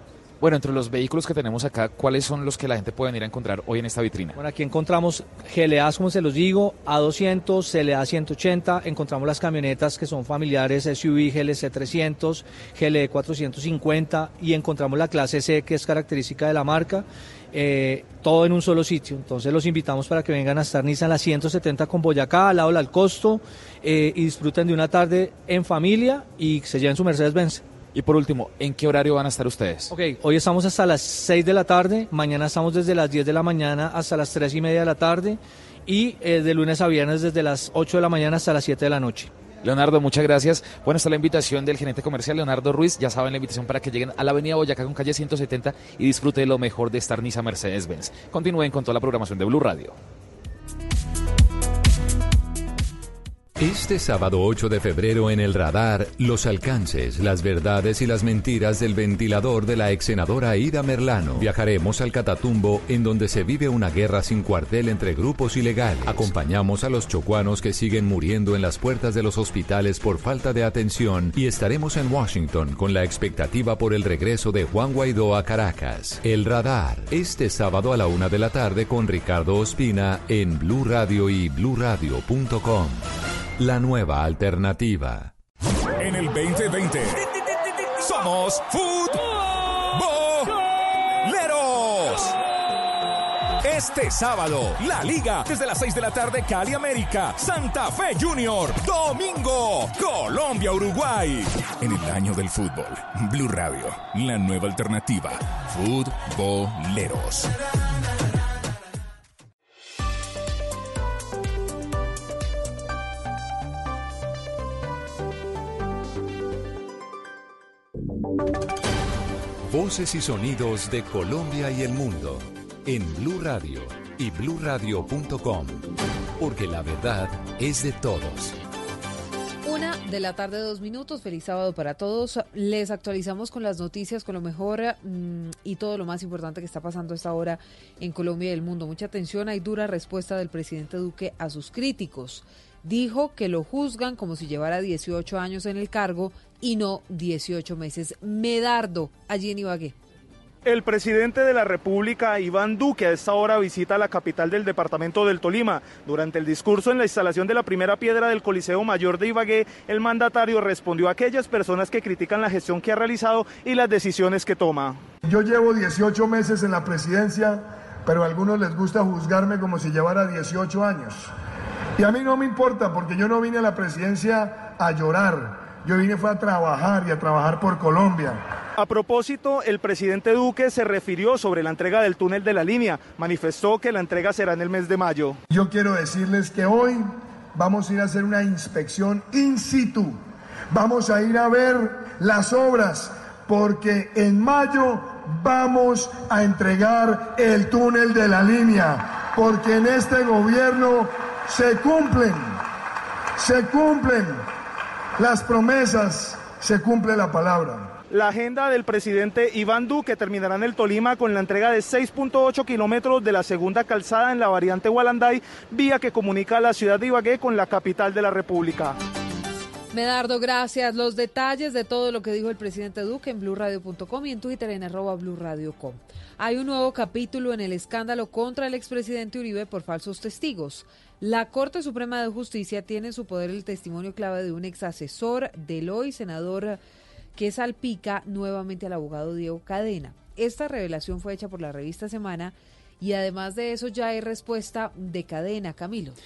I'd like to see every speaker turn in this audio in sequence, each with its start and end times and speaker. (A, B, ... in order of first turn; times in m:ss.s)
0:00.4-0:04.3 A
0:04.3-0:27.6 B
0:27.9-0:29.9 A
0:29.9-0:39.3 B
0:39.6-0:50.0 A
0:53.6-1:23.0 C
1:23.6-1:25.3 C
1:26.0-1:27.2 D
1:28.0-1:29.2 D
1:30.0-1:30.4 D
1:31.3-1:32.2 D
1:33.7-1:42.9 D
1:43.5-1:45.4 D
1:46.1-1:46.8 D
1:59.7-2:05.8 C
2:06.4-2:08.5 C
2:09.6-2:29.9 E
2:30.6-2:45.0 F
2:45.2-2:51.3 G
2:52.0-2:58.4 G
2:58.8-3:05.4 F
3:05.5-3:10.2 G
3:10.7-3:22.6 G
3:23.4-3:24.4 G
3:25.2-3:28.0 G
3:28.1-3:39.0 F
3:39.9-3:56.8 E
3:57.4-4:06.2 E